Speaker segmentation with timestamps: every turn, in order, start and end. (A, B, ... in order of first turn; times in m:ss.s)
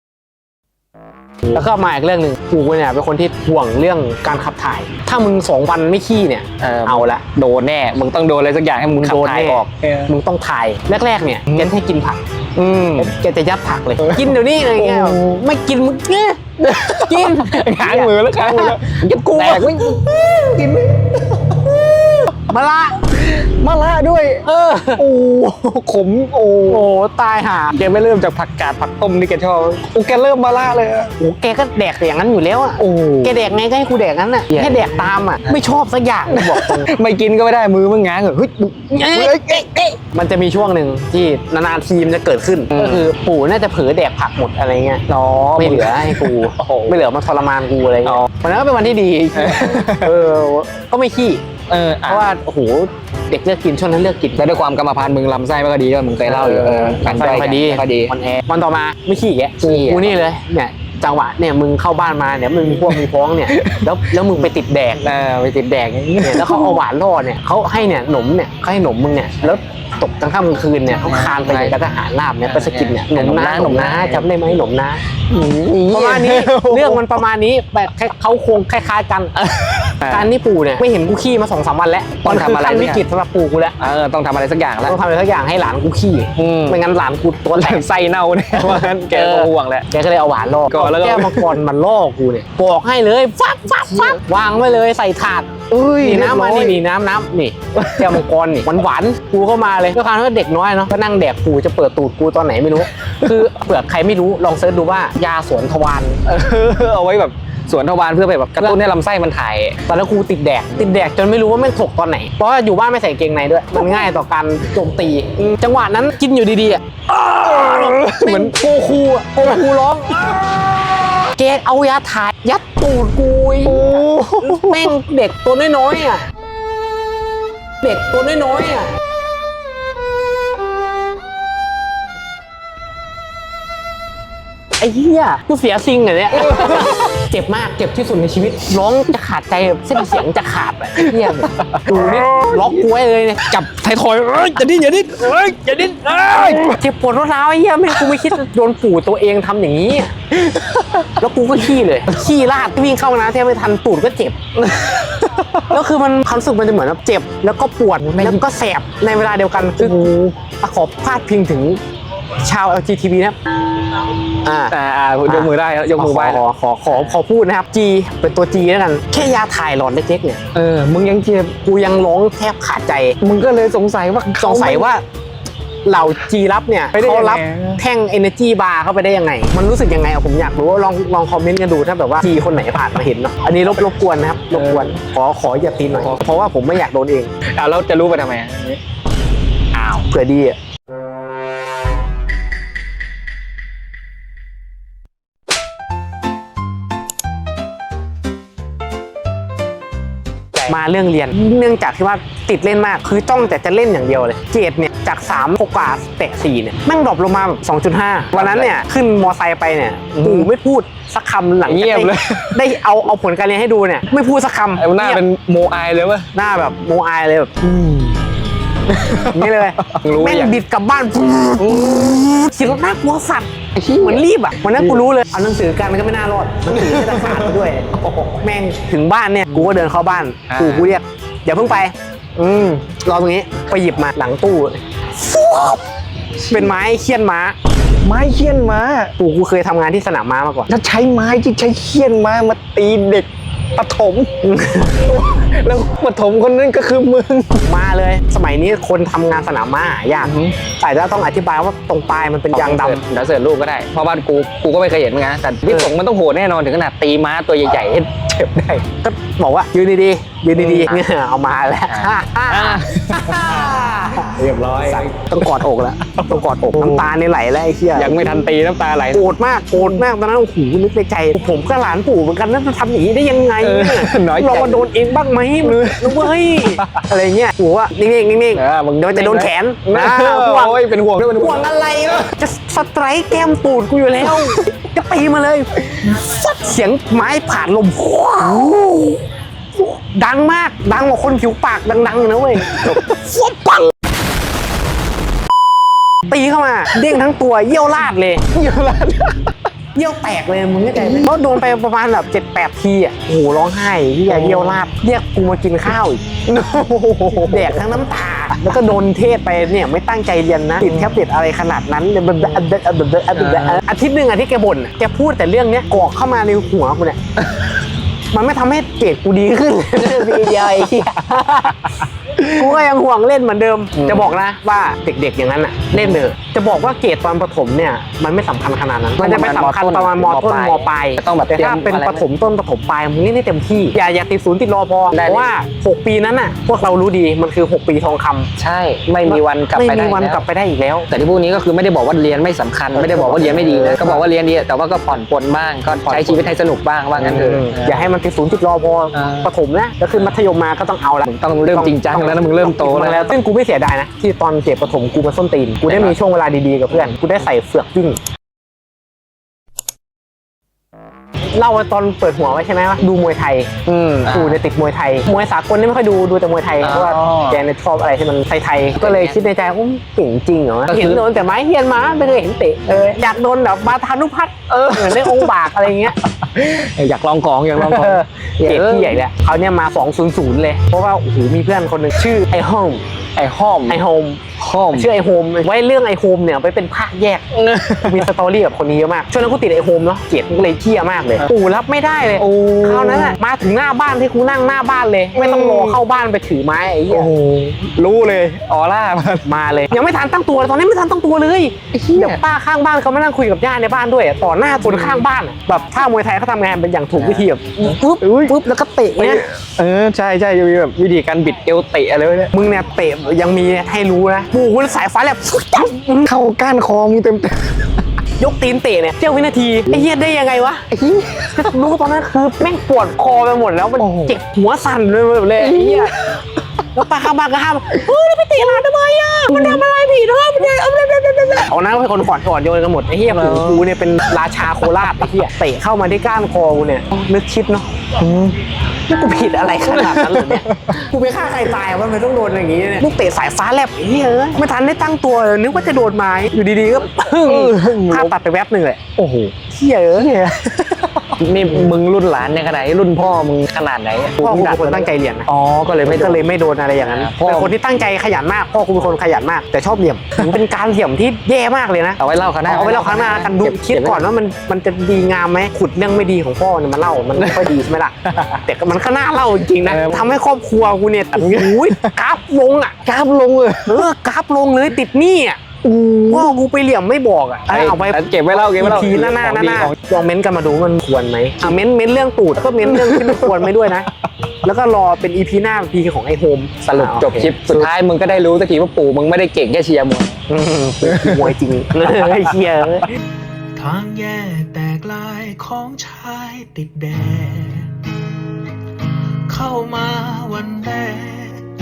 0:01.5-0:07.2 A
0:06.6-0:10.1 B
0:09.0-0:12.2 A
0:12.6-0:13.1 B
0:12.9-0:19.9 A
0:14.0-0:15.4 B
0:16.6-0:22.5 B
0:22.4-0:23.0 A
0:23.0-0:26.9 B
0:24.4-0:25.0 A
0:26.7-0:27.8 A
0:27.7-0:31.1 B
0:31.2-0:36.9 A
0:32.8-0:33.4 B
0:34.5-0:35.6 B
0:36.3-0:40.0 B
0:38.9-0:39.4 A
0:40.1-0:45.0 A
0:42.7-0:43.1 B
0:45.1-0:47.0 B
0:45.6-0:51.4 A
0:49.3-0:50.1 B
0:51.7-0:52.3 B
0:52.0-0:54.5 A
0:54.4-0:58.1 B
0:56.2-1:05.1 A
0:59.6-1:00.2 B
1:03.5-1:04.0 B
1:05.0-1:06.8 B
1:06.2-1:15.0 A
1:11.0-1:11.8 B
1:12.5-1:14.3 B
1:15.3-1:17.2 B
1:15.9-1:19.3 A
1:19.4-1:20.3 B
1:20.1-1:23.8 A
1:22.2-1:23.0 B
1:23.8-1:25.0 B
1:24.8-1:27.8 A
1:26.4-1:26.8 B
1:27.5-1:29.9 B
1:28.5-1:46.2 A
1:30.7-1:31.6 B
1:33.9-1:34.2 B
1:35.7-1:36.8 B
1:37.7-1:38.2 B
1:46.2-1:49.8 B
1:49.9-2:06.2 A
1:53.8-1:54.1 B
1:57.2-1:58.8 B
2:00.2-2:00.5 B
2:03.6-2:05.0 B
2:07.8-2:08.9 A
2:14.8-2:23.6 A
2:16.3-2:17.0 B
2:21.0-2:22.7 B
2:23.4-2:26.8 B
2:26.6-2:30.1 A
2:27.9-2:28.3 B
2:30.4-2:31.2 B
2:31.2-2:34.4 A
2:34.6-2:35.8 B
2:35.6-2:40.0 A
2:38.0-2:38.4 B
2:39.7-2:40.4 B
2:40.6-2:41.8 A
2:42.4-2:43.4 A
2:44.4-2:44.7 A
2:44.7-2:47.2 B
2:45.3-2:50.4 A
2:50.5-2:51.6 B
2:51.6-2:53.2 A
2:53.2-2:54.9 B
2:54.4-2:55.0 A
2:55.8-3:07.3 A
2:56.9-2:57.8 B
3:04.5-3:04.9 B
3:05.9-3:06.2 B
3:07.5-3:08.8 B
3:09.7-3:10.1 B
3:10.1-3:10.6 A
3:20.6-3:35.2 A
3:28.3-3:28.8 B
3:30.1-3:30.5 B
3:31.6-3:32.7 B
3:34.7-3:36.3 B
3:36.3-3:37.5 A
3:37.6-3:38.2 B
3:38.9-3:40.6 B
3:39.3-3:54.8 A
3:41.6-3:42.5 B
3:43.8-3:45.0 B
3:46.7-3:48.3 B
3:50.5-3:50.9 B
3:55.2-3:55.8 B
3:56.4-3:56.7 B
3:56.5-3:57.6 A
3:58.0-3:59.1 B
3:59.2-4:00.7 A
4:00.7-4:04.3 B
4:04.4-4:05.0 A
4:05.0-4:07.7 B
4:07.6-4:13.0 A
4:10.2-4:10.5 B
4:12.5-4:18.7 B
4:15.7-4:15.9 A
4:18.4-4:28.3 A
4:20.5-4:21.0 B
4:21.9-4:25.6 B
4:26.2-4:27.1 B
4:27.9-4:30.0 B
4:29.1-4:40.8 A
4:33.6-4:34.9 B
4:35.6-4:37.0 B
4:38.5-4:42.3 B
4:41.3-4:48.7 A
4:44.2-4:44.6 B
4:45.9-4:46.3 B
4:48.4-4:49.2 B
4:49.8-4:53.8 A
4:52.6-4:53.8 B
4:56.3-4:58.4 A
4:58.5-4:59.6 B
4:59.9-5:06.2 A
5:01.0-5:01.3 B
5:04.3-5:04.8 B
5:06.4-5:08.0 B
5:07.3-5:17.2 A
5:10.8-5:11.2 B
5:12.4-5:12.6 B
5:13.3-5:13.8 B
5:17.5-5:17.7 B
5:18.3-5:21.9 A
5:20.0-5:21.1 B
5:22.4-5:22.8 B
5:22.4-5:38.5 A
5:24.0-5:24.3 B
5:25.9-5:26.2 B
5:29.2-5:32.2 B
5:35.1-5:35.5 B
5:38.6-5:40.4 B
5:39.2-5:41.1 A
5:41.1-5:48.1 B
5:42.9-5:44.2 A
5:46.0-5:46.6 A
5:47.2-5:58.2 A
5:49.1-5:49.5 B
5:51.2-5:53.2 B
5:55.9-5:56.2 B
6:01.5-6:16.2 A
6:03.8-6:04.6 B
6:06.8-6:07.6 B
6:09.0-6:09.4 B
6:10.9-6:11.2 B
6:14.7-6:19.2 B
6:17.8-6:23.0 A
6:23.4-6:24.0 B
6:23.9-6:24.4 A
6:24.6-6:25.1 B
6:24.9-6:27.4 A
6:27.5-6:28.3 B
6:28.0-6:37.3 A
6:32.4-6:33.4 B
6:35.3-6:36.0 B
6:37.1-6:39.4 B
6:39.4-6:49.4 A
6:41.9-6:42.4 B
6:44.8-6:45.2 B
6:47.1-6:48.6 B
6:49.1-6:52.5 B
6:52.5-6:56.3 A
6:56.2-6:57.9 B
6:58.4-7:00.8 A
7:00.9-7:01.9 B
7:01.5-7:06.1 A
7:04.0-7:04.4 B
7:05.6-7:06.4 B
7:06.9-7:18.1 A
7:09.4-7:09.8 B
7:10.6-7:11.7 B
7:13.3-7:13.9 B
7:14.8-7:15.1 B
7:18.2-7:18.6 B
7:19.1-7:29.0 A
7:19.8-7:21.0 B
7:27.4-7:28.3 B
7:29.2-7:29.5 B
7:29.7-7:30.3 A
7:30.1-7:37.7 B
7:34.4-7:35.5 A
7:36.0-7:53.0 A
7:42.2-7:44.2 B
7:47.4-7:47.7 B
7:49.8-7:50.3 B
7:51.4-7:52.1 B
7:53.0-7:54.0 B
7:53.8-7:55.6 A
7:55.8-7:56.6 B
7:56.3-8:04.1 A
7:57.7-8:00.0 B
8:02.8-8:03.7 B
8:04.6-8:07.9 A
8:06.8-8:10.4 B
8:10.5-8:13.1 A
8:11.0-8:12.6 B
8:13.7-8:17.9 C
8:19.5-8:21.7 C